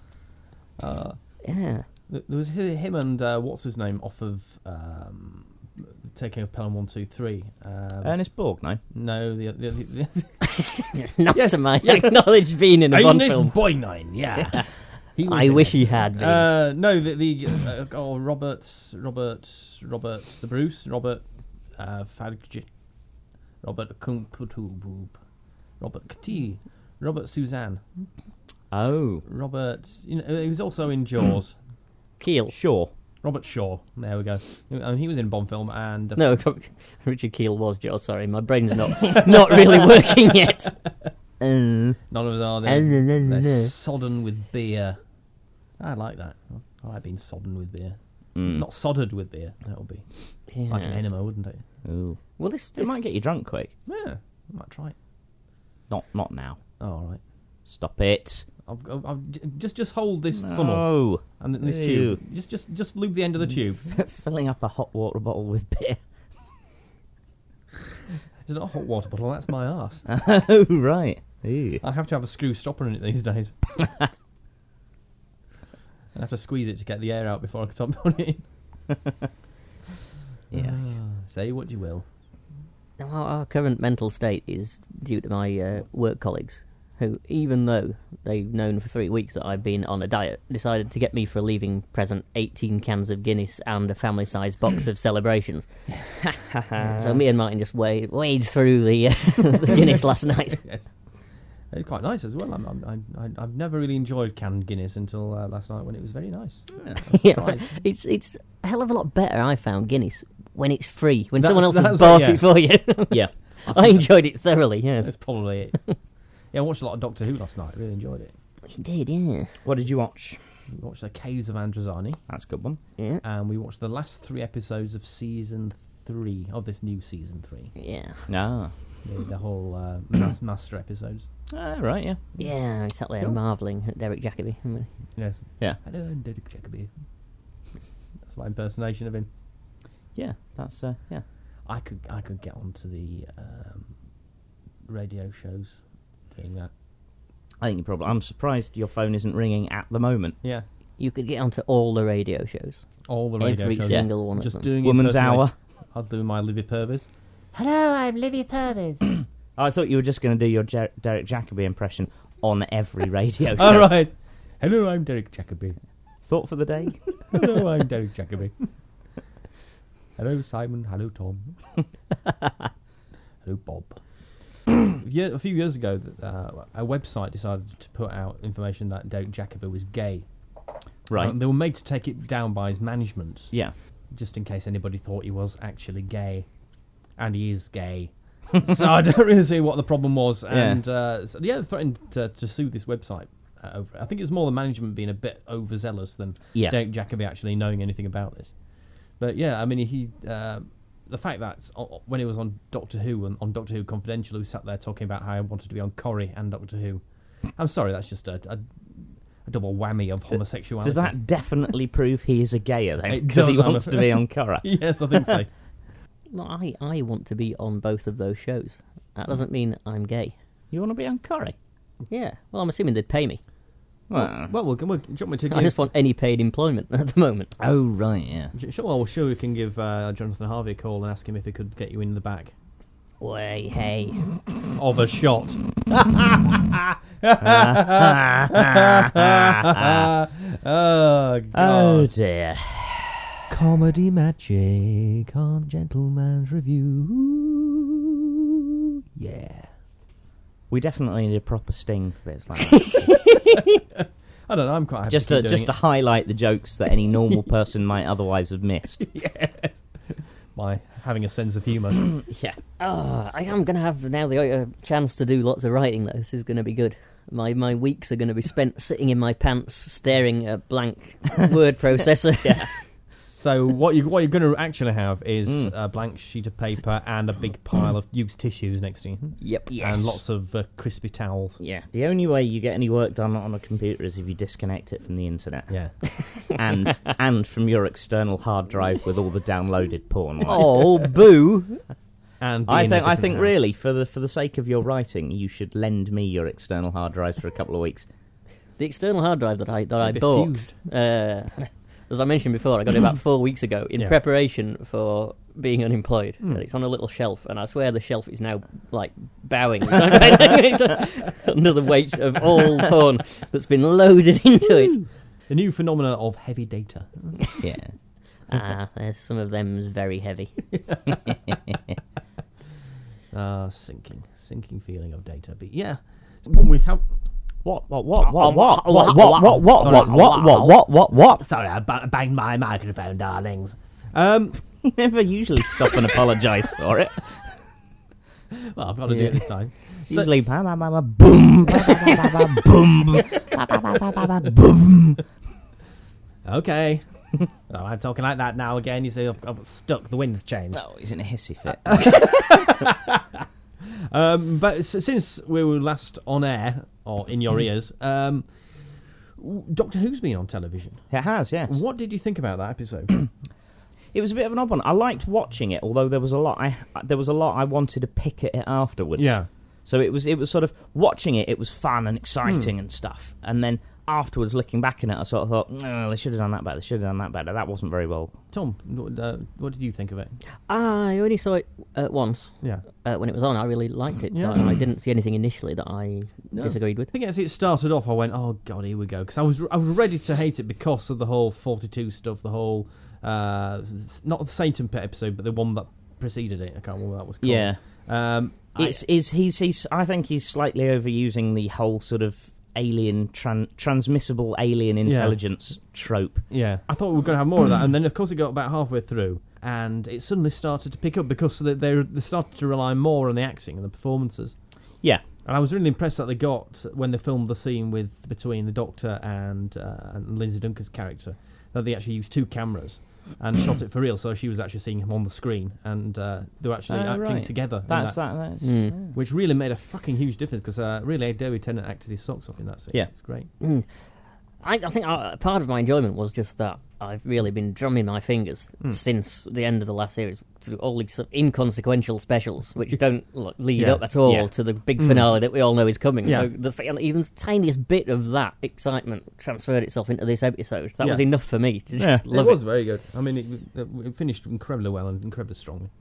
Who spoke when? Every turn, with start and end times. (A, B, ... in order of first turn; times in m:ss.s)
0:00.8-0:01.4 A
0:01.4-0:01.8 B
0:02.1-0:08.2 A
0:08.0-0:08.8 C
0:08.9-0:10.4 A
0:10.6-0:13.6 B
0:11.3-0:12.2 A
0:12.9-0:21.2 A
0:15.3-0:16.5 B
0:21.8-0:22.7 A
0:23.6-0:25.2 A
0:25.8-0:27.9 A
0:28.7-0:29.2 C
0:29.3-0:31.6 A
0:32.2-0:32.5 B
0:32.5-0:32.9 C
0:33.2-0:36.2 A
0:36.2-0:40.8 B
0:41.4-0:42.0 C
0:42.1-0:45.0 A
0:42.6-0:43.7 B
0:45.8-0:50.1 A
0:48.4-0:48.6 C
0:50.5-0:51.1 B
0:50.7-0:51.6 A
0:51.8-0:52.2 C
0:52.4-0:53.0 B
0:52.8-0:53.7 C
0:53.9-0:55.0 A
0:55.9-0:56.6 C
0:56.8-0:57.2 A
0:57.7-0:58.5 C
0:58.7-1:03.9 A
1:00.4-1:02.2 C
1:03.9-1:06.0 C
1:08.4-1:10.0 A
1:10.1-1:11.8 C
1:11.8-1:13.6 A
1:16.1-1:18.4 A
1:20.5-1:20.9 C
1:20.5-1:22.1 A
1:23.0-1:35.7 B
1:36.2-1:37.2 C
1:36.8-1:40.6 B
1:39.8-1:40.9 A
1:41.7-1:47.7 A
1:47.1-1:55.2 B
1:51.4-1:52.4 A
1:53.7-1:54.1 A
1:55.0-1:55.8 A
1:56.5-1:58.3 A
1:58.7-1:59.6 B
1:59.6-2:00.4 C
2:00.7-2:02.2 A
2:02.3-2:02.8 C
2:03.2-2:07.7 A
2:07.8-2:08.3 B
2:08.3-2:08.7 C
2:09.0-2:11.3 A
2:11.5-2:12.4 C
2:12.4-2:14.9 B
2:15.2-2:16.9 A
2:18.2-2:19.3 A
2:20.2-2:21.2 C
2:21.6-2:24.0 A
2:24.9-2:26.7 A
2:27.6-2:30.4 C
2:31.0-2:32.8 B
2:33.1-2:39.2 A
2:33.4-2:34.7 B
2:34.8-2:35.5 C
2:39.6-2:43.9 C
2:43.6-2:45.8 A
2:46.3-2:47.4 C
2:47.3-2:48.7 A
2:50.2-2:51.6 A
2:53.4-2:54.0 A
2:54.8-3:00.3 A
3:01.1-3:01.4 C
3:01.1-3:03.5 A
3:04.1-3:06.5 A
3:07.2-3:18.6 A
3:10.5-3:10.8 C
3:19.2-3:31.2 A
3:30.8-3:35.4 C
3:33.1-3:35.5 A
3:36.3-3:40.4 B
3:40.7-3:41.6 C
3:42.1-3:43.4 B
3:44.1-3:44.5 C
3:44.2-3:45.8 A
3:45.5-3:47.5 B
3:47.6-3:48.5 C
3:48.5-3:52.5 A
3:53.2-3:54.2 B
3:54.7-4:02.1 A
3:57.4-4:00.1 C
4:01.5-4:03.2 C
4:03.5-4:08.6 A
4:09.1-4:09.7 A
4:10.7-4:13.2 C
4:12.8-4:13.4 B
4:14.0-4:15.7 A
4:15.1-4:19.1 C
4:19.0-4:22.1 A
4:22.2-4:22.6 C
4:22.8-4:32.8 B
4:33.2-4:41.6 A
4:35.5-4:35.7 C
4:39.4-4:40.2 B
4:41.6-4:50.8 C
4:45.7-4:46.0 A
4:50.4-4:51.8 B
4:52.4-4:53.6 A
4:52.7-4:58.1 C
4:58.8-5:15.0 B
5:00.0-5:00.8 A
5:15.5-5:17.4 A
5:17.6-5:17.9 C
5:18.5-5:20.6 B
5:23.3-5:27.0 A
5:27.6-5:31.4 C
5:28.2-5:30.8 B
5:29.8-5:30.4 A
5:31.4-5:34.6 A
5:34.8-5:37.4 C
5:38.5-5:40.3 A
5:39.1-5:39.5 C
5:40.0-5:45.2 C
5:41.8-5:42.3 A
5:46.4-5:50.8 A
5:50.7-5:52.1 C
5:51.9-5:53.5 A
5:54.1-6:01.1 A
6:01.1-6:01.8 C
6:01.6-6:03.2 A
6:04.1-6:18.4 C
6:09.2-6:09.5 A
6:12.4-6:12.7 A
6:18.5-6:20.4 A
6:20.7-6:27.1 B
6:24.3-6:24.7 A
6:26.5-6:39.0 A
6:37.4-6:46.5 C
6:45.0-6:45.4 A
6:46.5-6:54.6 A
6:55.4-7:08.4 A
7:06.9-7:09.2 C
7:08.6-7:09.0 B
7:08.9-7:13.5 A
7:13.6-7:13.9 B
7:14.6-7:32.6 B
7:23.8-7:24.0 A
7:25.0-7:25.3 A
7:32.3-7:35.9 A